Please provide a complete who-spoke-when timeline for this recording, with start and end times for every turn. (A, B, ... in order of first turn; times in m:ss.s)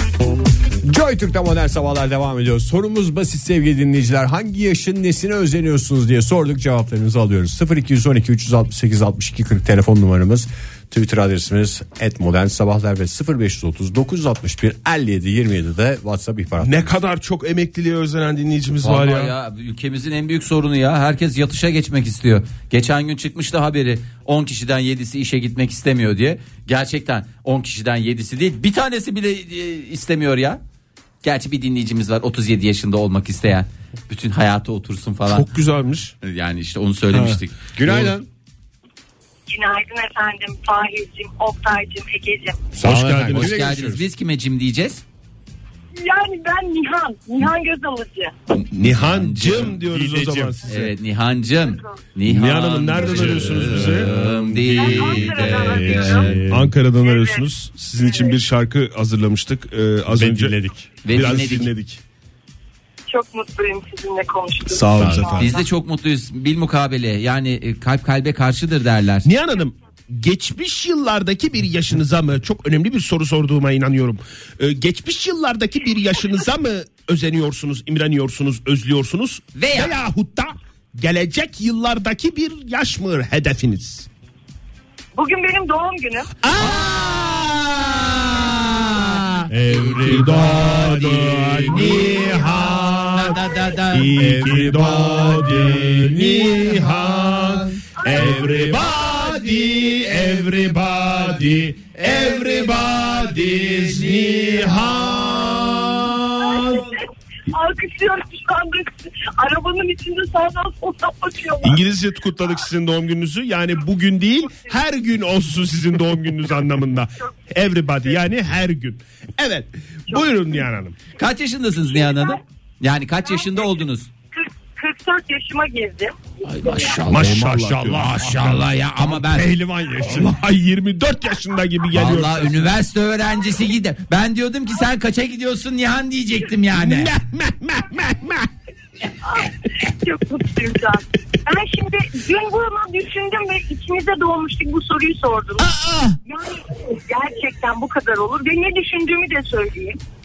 0:00.8-0:16.9 A
0:16.6-0:19.3 B
0:18.8-0:30.6 C
0:31.2-0:35.5 C
0:35.3-0:36.1 B
0:36.2-0:37.6 C
0:37.1-0:38.1 B
0:37.7-0:38.3 A
0:39.5-0:42.6 D
0:42.8-0:44.0 A
0:42.8-0:43.5 B
0:43.3-0:45.0 C
0:45.9-0:48.3 D
0:48.6-0:49.8 C
0:48.7-0:50.9 B
0:49.8-0:50.6 A
0:50.6-0:56.4 C
0:52.2-0:54.1 B
0:53.4-0:56.7 A
0:54.8-0:56.3 D
0:54.8-0:55.2 B
0:56.4-1:00.5 B
0:57.0-0:57.4 D
0:58.0-0:58.4 D
1:00.1-1:00.8 A
1:01.0-1:01.7 C
1:01.1-1:02.0 B
1:03.1-1:05.6 D
1:04.7-1:05.5 B
1:05.0-1:05.2 A
1:05.4-1:09.3 C
1:09.2-1:24.1 B
1:19.5-1:19.9 C
1:25.2-1:26.3 D
1:26.4-1:26.9 B
1:26.5-1:34.2 C
1:29.5-1:30.7 A
1:29.9-1:33.4 B
1:33.9-1:46.9 B
1:34.2-1:36.6 A
1:38.0-1:38.4 D
1:42.0-1:45.5 C
1:46.4-1:51.8 D
1:51.6-2:01.0 B
2:00.1-2:00.6 D
2:01.2-2:04.1 C
2:02.0-2:02.4 D
2:03.3-2:03.8 D
2:04.3-2:07.0 D
2:06.4-2:09.5 C
2:07.1-2:08.1 B
2:07.1-2:10.3 A
2:10.0-2:12.7 B
2:11.9-2:17.2 C
2:16.7-2:18.5 B
2:19.3-2:25.7 D
2:25.6-2:26.2 C
2:26.2-2:30.0 D